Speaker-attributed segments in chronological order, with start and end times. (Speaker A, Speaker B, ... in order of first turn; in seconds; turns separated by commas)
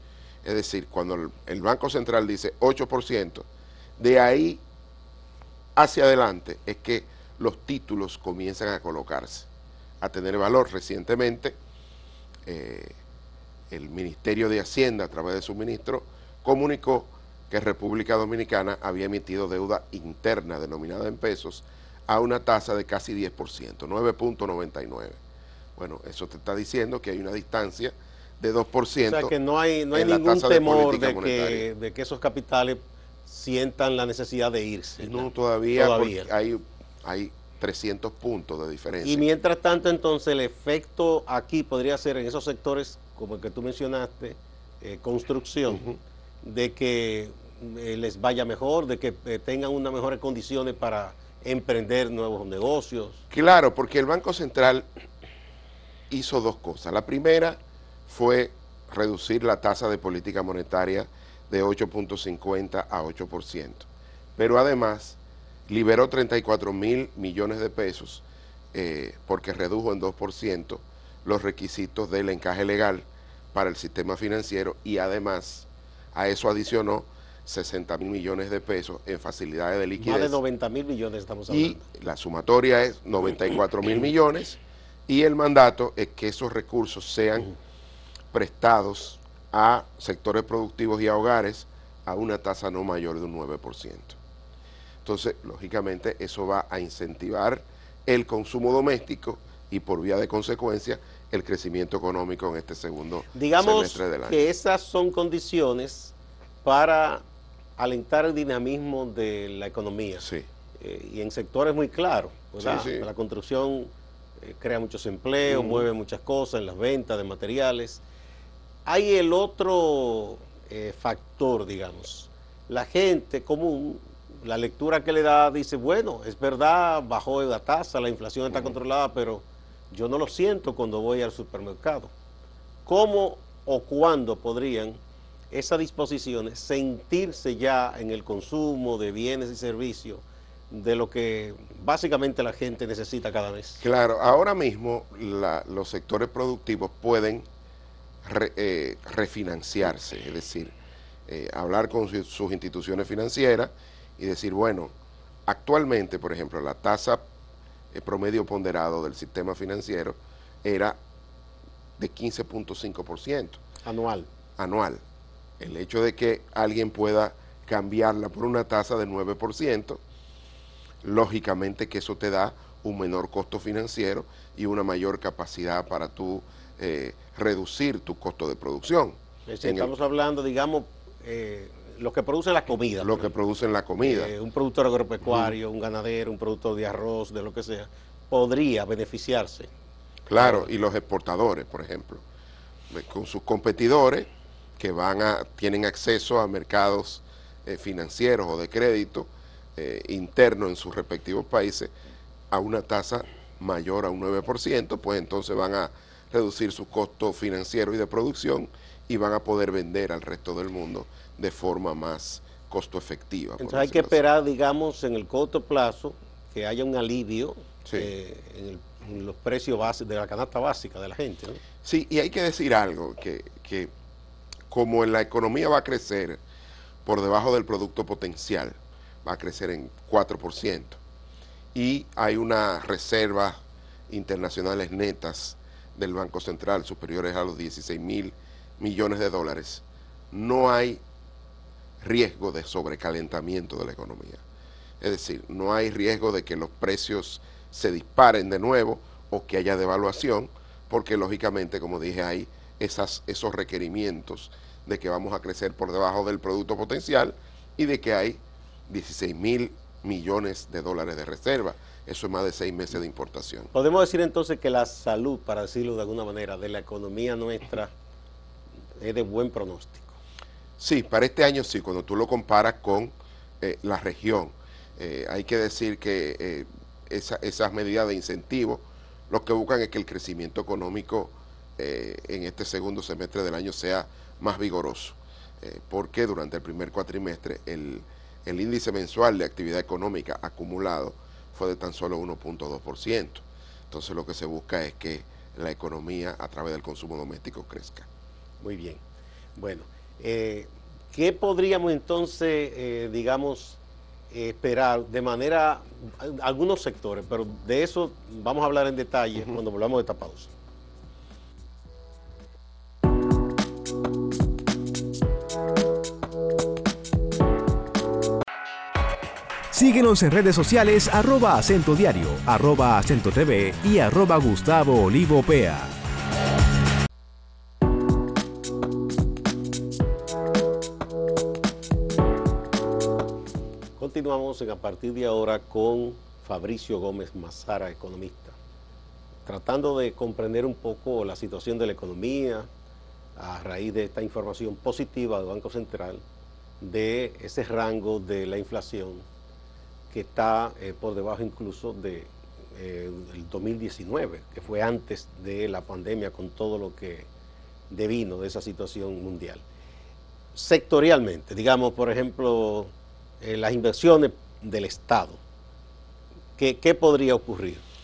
Speaker A: 0.4-3.5, Speaker A: 4.0-4.6, Speaker A: 5.8-9.5, Speaker A: 10.0-11.6, Speaker A: 12.4-12.9, Speaker A: 13.7-25.2, Speaker A: 25.8-29.3, Speaker B: 29.0-36.3, Speaker A: 29.9-31.7, Speaker A: 35.0-39.2, Speaker B: 39.0-45.9, Speaker A: 45.7-46.0, Speaker B: 46.4-53.2, Speaker A: 53.3-54.9, Speaker A: 56.1-80.4, Speaker B: 80.0-81.8, Speaker A: 81.5-87.5, Speaker A: 88.3-94.2, Speaker A: 95.0-104.4, Speaker B: 103.3-107.2, Speaker B: 107.8-110.2, Speaker B: 110.8-113.9, Speaker A: 112.6-113.1, Speaker B: 114.4-118.0, Speaker A: 115.4-115.9, Speaker B: 118.8-132.1, Speaker B: 132.8-135.0, Speaker B: 135.5-143.8, Speaker A: 143.8-147.4, Speaker A: 148.2-150.7, Speaker A: 151.3-154.9, Speaker A: 155.5-157.2, Speaker A: 157.9-161.0, Speaker A: 162.0-163.6, Speaker B: 163.8-164.3, Speaker A: 164.6-165.0, Speaker A: 165.6-170.0, Speaker A: 171.0-179.9, Speaker B: 179.5-183.3, Speaker A: 183.0-184.3, Speaker B: 184.0-189.7, Speaker A: 185.2-185.5, Speaker A: 190.3-192.2, Speaker B: 190.3-190.7, Speaker A: 192.9-201.9, Speaker A: 202.5-214.2, Speaker B: 213.6-221.6, Speaker A: 221.8-223.9, Speaker A: 224.7-226.4, Speaker A: 227.0-231.0, Speaker A: 231.7-241.0, Speaker A: 242.0-244.4, Speaker A: 245.0-263.7, Speaker B: 263.7-267.9, Speaker B: 269.0-270.2, Speaker A: 270.8-298.1, Speaker B: 298.6-299.0, Speaker B: 299.6-303.8, Speaker B: 304.3-310.5, Speaker C: 319.7-325.9, Speaker B: 334.0-338.6, Speaker B: 339.4-342.7, Speaker B: 343.4-346.2, Speaker B: 346.8-349.2, Speaker B: 350.1-357.3, Speaker B: 357.9-359.6, Speaker B: 360.5-362.9, Speaker B: 363.4-365.4, Speaker B: 366.6-367.8